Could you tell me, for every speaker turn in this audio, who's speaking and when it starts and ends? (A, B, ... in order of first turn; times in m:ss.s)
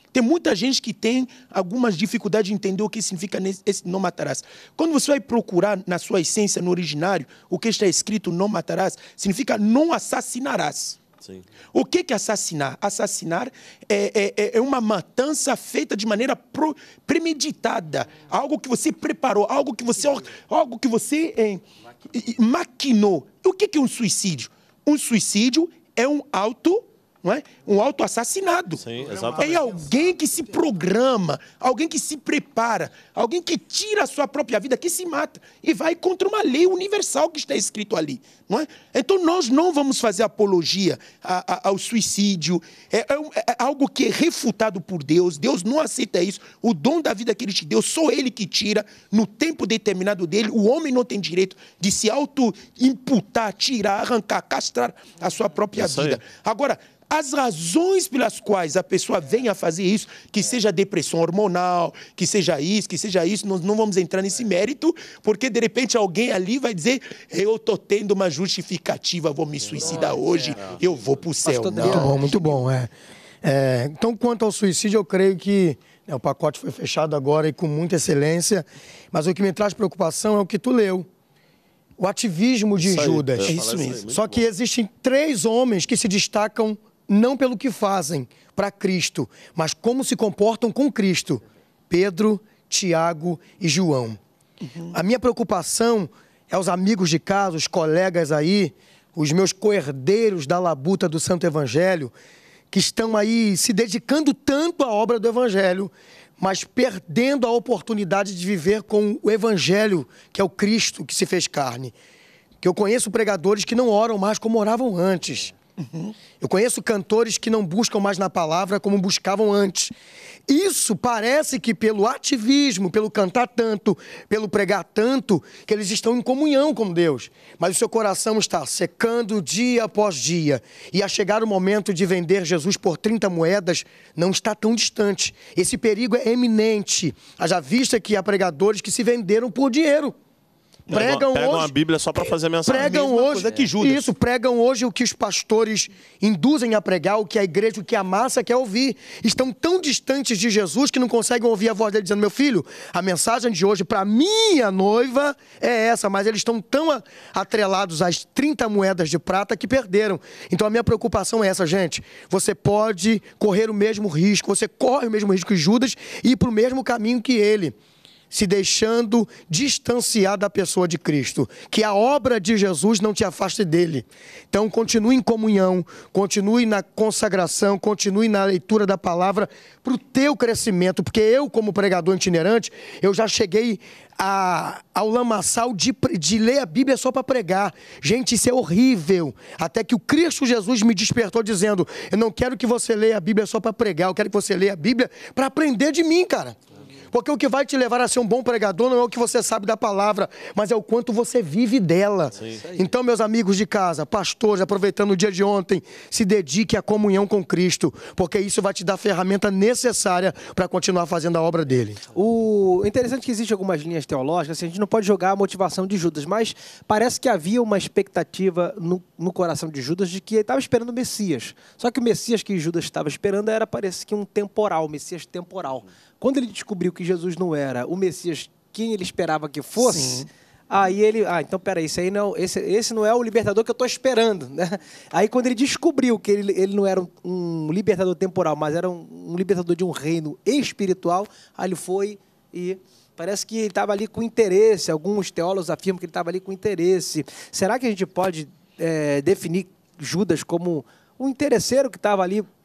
0:00.1-0:11.0 A
0:11.7-1:12.6 A
0:28.8-0:29.6 B
0:55.7-0:56.2 B
1:10.6-1:11.0 B
1:11.4-1:12.3 C
1:11.8-1:12.9 D
1:13.4-1:21.1 D
1:22.0-1:23.5 D
1:22.8-1:24.4 B
1:23.4-1:24.0 A
1:24.1-1:34.2 D
1:34.6-1:34.9 A
1:34.9-1:42.1 D
1:42.7-1:51.9 D
1:52.6-1:55.5 D
1:55.8-1:56.1 A
1:56.4-1:59.9 D
2:00.5-2:20.1 D
2:20.9-2:21.2 A
2:20.9-2:21.7 D
2:20.9-2:23.7 B
2:22.6-2:47.8 D
2:22.7-2:24.0 A
2:48.3-3:16.6 D
3:17.1-3:32.0 D
3:32.1-4:12.5 C
3:49.8-3:50.3 A